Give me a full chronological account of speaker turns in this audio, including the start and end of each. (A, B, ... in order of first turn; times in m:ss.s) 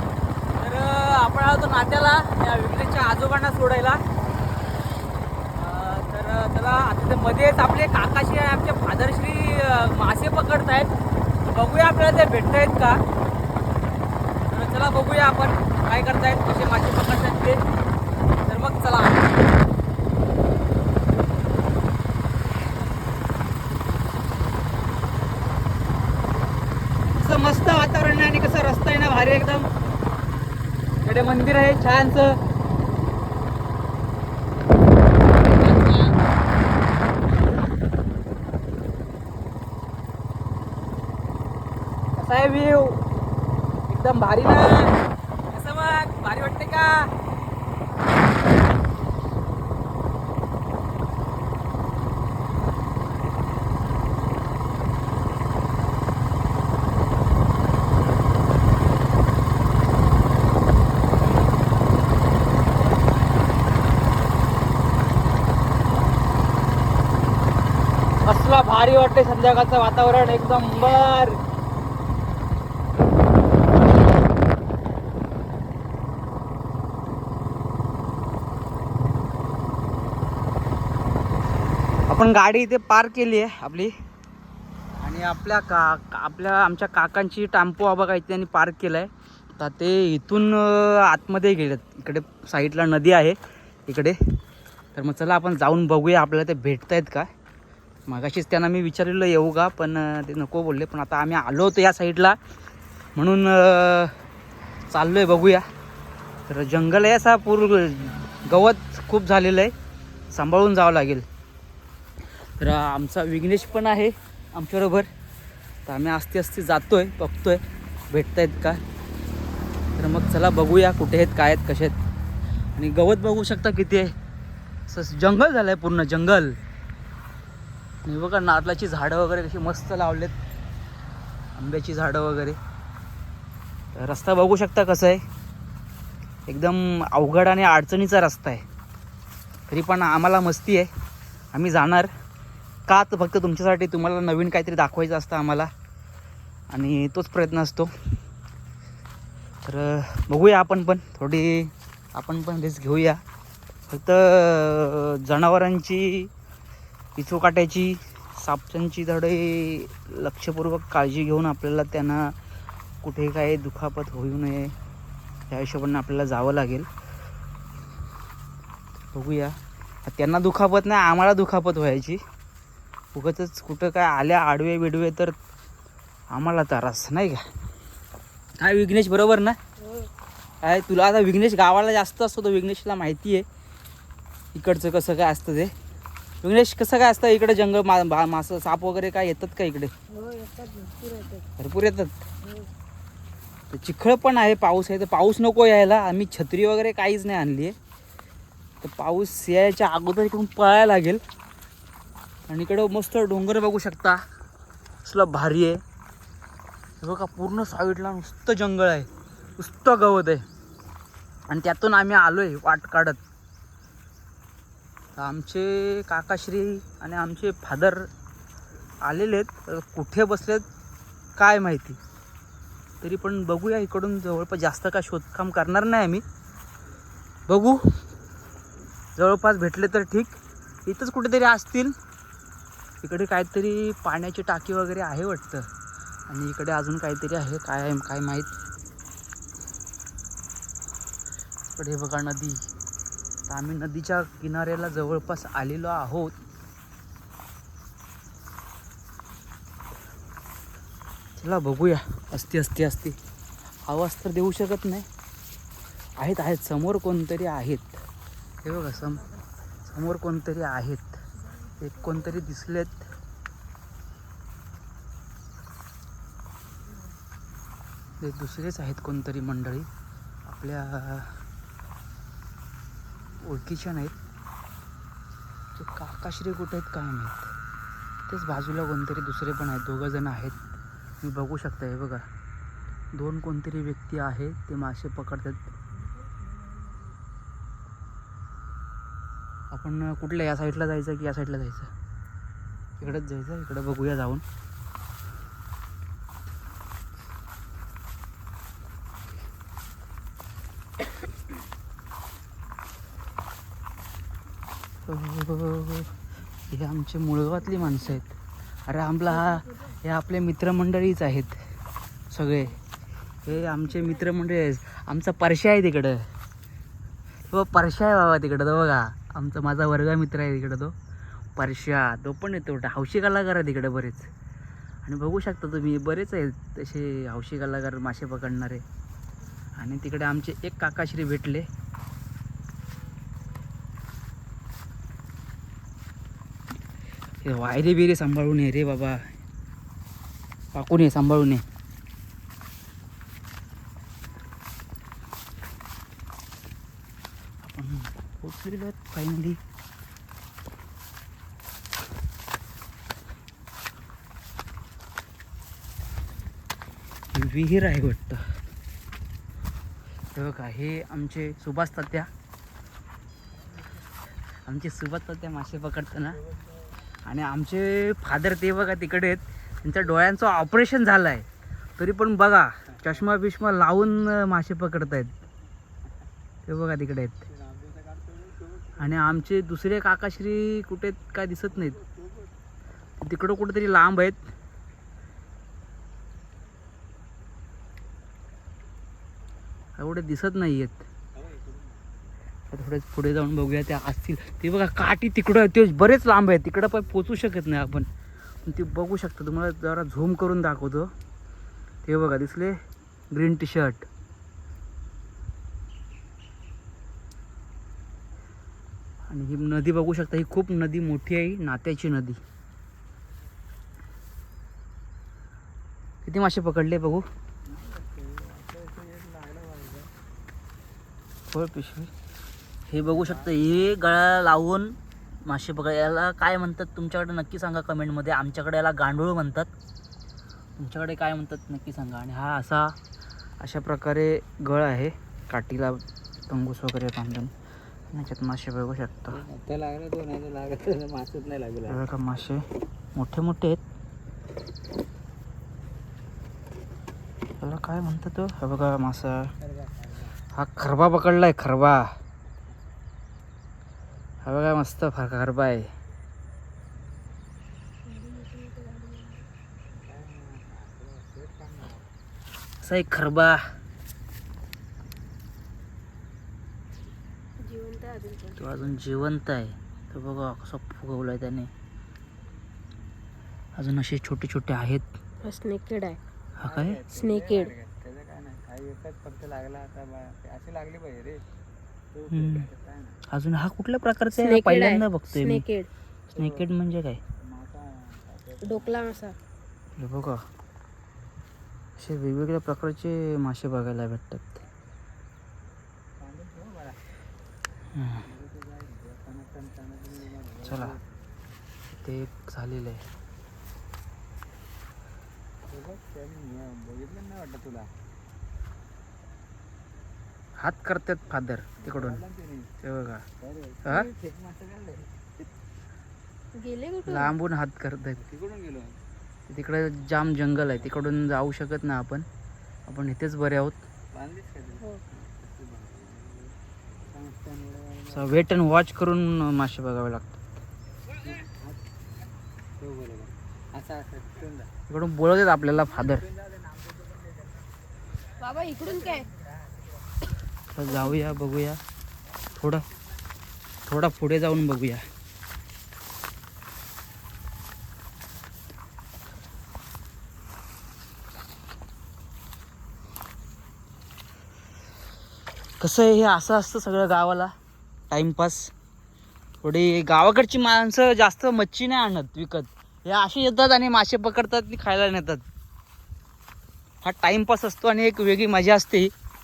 0:00.6-0:04.0 A
0:05.5-0:10.9 A
0:11.4-0:13.0 A
0:14.5-0:17.6 A
0:18.4-0:19.3 A
0:27.2-0:29.7 A
0:31.0-0:32.4 A
0:35.6-0:36.1 A
0:42.2-0:43.0 A
0:43.9-0:45.0 A
0:45.5-0:47.1 A
1:08.2-1:11.4 A
1:22.1-1:23.9 A
1:25.0-1:34.4 A
1:35.0-1:37.3 A
1:38.1-1:42.4 A
1:43.2-1:44.1 A
1:44.9-1:45.6 A
1:46.5-1:49.7 A
1:50.3-1:51.2 A
1:52.6-1:55.1 A
1:55.8-1:58.8 A
2:00.0-2:02.0 A
2:02.8-2:04.1 A
2:04.9-2:06.6 A
2:08.0-2:10.3 A
2:11.6-2:12.6 A
2:13.9-2:15.2 A
2:16.5-2:18.6 A
2:19.7-2:20.9 A
2:21.5-2:22.1 A
2:22.9-2:25.7 A
2:26.7-2:27.9 A
2:29.6-2:33.2 A
2:33.9-2:36.3 A
2:37.2-2:42.3 A
2:43.0-2:44.7 A
2:45.5-2:46.9 A
2:49.1-2:52.2 A
2:53.1-2:55.3 A
2:56.3-2:57.4 A
2:58.6-2:59.6 A
2:59.8-3:00.1 B
3:00.6-3:03.4 A
3:04.5-3:05.7 A
3:06.4-3:09.9 A
3:10.1-3:11.4 B
3:11.6-3:12.2 A
3:12.4-3:12.7 B
3:13.7-3:17.7 A
3:18.8-3:21.2 A
3:22.5-3:24.2 A
3:25.0-3:25.8 A
3:27.0-3:30.4 A
3:31.5-3:33.2 A
3:35.2-3:38.1 A
3:39.0-3:40.6 A
3:41.4-3:42.0 A
3:43.0-3:46.2 A
3:47.5-3:47.9 A
3:49.2-3:51.9 A
3:53.0-3:55.7 A
3:56.3-3:58.5 A
4:01.8-4:02.6 A
4:03.5-4:06.4 A
4:11.4-4:13.2 A
4:13.9-4:15.1 A
4:16.2-4:18.0 A
4:18.6-4:19.3 A
4:19.8-4:21.2 A
4:21.8-4:23.1 A
4:28.2-4:29.9 A
4:30.5-4:31.3 A
4:33.4-4:34.2 A
4:35.8-4:37.5 A
4:38.3-4:40.6 A
4:41.2-4:42.2 A
4:43.2-4:45.7 A
4:46.4-4:47.0 B
4:49.7-4:51.9 A
4:53.0-4:54.4 A
5:05.0-5:06.1 A
5:06.7-5:08.3 A
5:08.9-5:11.6 A
5:12.3-5:12.8 A
5:13.4-5:16.2 A
5:17.5-5:20.9 A
5:21.6-5:24.3 A
5:25.0-5:28.8 A
5:29.8-5:31.7 A
5:37.4-5:39.2 A
5:40.7-5:41.6 A
5:47.6-5:49.6 A
5:57.3-5:58.4 A
6:00.3-6:02.3 A
6:04.6-6:06.4 A
6:07.2-6:11.5 A
6:12.0-6:15.4 A
6:16.7-6:17.4 A
6:17.5-6:19.0 C
6:19.0-6:22.0 A
6:23.2-6:24.4 A
6:30.0-6:31.0 A
6:32.7-6:38.1 A
6:38.6-6:41.1 A
6:42.0-6:42.8 A
6:43.3-6:44.1 A
6:49.3-6:52.4 A
6:56.2-6:57.2 A
6:57.7-7:00.1 C
7:01.5-7:02.1 A
7:02.9-7:09.7 A
7:10.8-7:13.0 A
7:13.6-7:17.5 A
7:18.1-7:19.4 A
7:19.3-7:22.0 C
7:21.9-7:22.6 A
7:23.2-7:23.8 A
7:27.6-7:29.5 A
7:29.6-7:30.4 C
7:30.5-7:32.1 A
7:34.4-7:35.9 A
7:38.0-7:39.4 B
7:40.0-7:42.0 C
7:42.8-7:43.6 A
7:47.6-7:48.6 B
7:48.5-7:51.7 A
7:53.8-7:55.1 A
7:55.4-7:56.2 B
7:56.6-7:57.0 A
7:56.6-8:01.4 C
7:57.1-7:57.7 B
8:02.1-8:03.2 C
8:02.3-8:02.7 A
8:03.3-8:05.6 A
8:04.4-8:05.9 B
8:06.4-8:07.2 A
8:06.4-8:06.6 C
8:07.4-8:09.2 C
8:08.6-8:09.4 B
8:10.0-8:10.4 A
8:12.0-8:14.6 A
8:16.2-8:17.0 C
8:17.9-8:18.2 A
8:18.2-8:21.0 C
8:20.6-8:21.0 A
8:22.0-8:23.0 A
8:25.7-8:27.9 C
8:30.6-8:32.2 A
8:31.8-8:32.7 C
8:32.8-8:33.2 A
8:33.4-8:35.1 C
8:33.8-8:34.1 A
8:36.5-8:37.3 B
8:37.0-8:38.2 A
8:38.2-8:39.0 C
8:39.5-8:42.2 A
8:42.9-8:43.8 A
8:44.1-8:46.6 C
8:47.1-8:48.3 C
8:48.1-8:50.4 A
8:51.3-8:51.8 C
8:52.8-8:54.7 C
8:54.9-8:56.2 A
8:56.1-8:57.1 C
8:58.4-8:59.3 B
8:58.8-8:59.2 C
9:00.7-9:01.8 A
9:00.9-9:01.1 B
9:02.6-9:02.8 A
9:03.8-9:05.0 A
9:15.8-9:17.5 A
9:18.1-9:18.7 A
9:19.6-9:25.4 A
9:27.0-9:29.1 A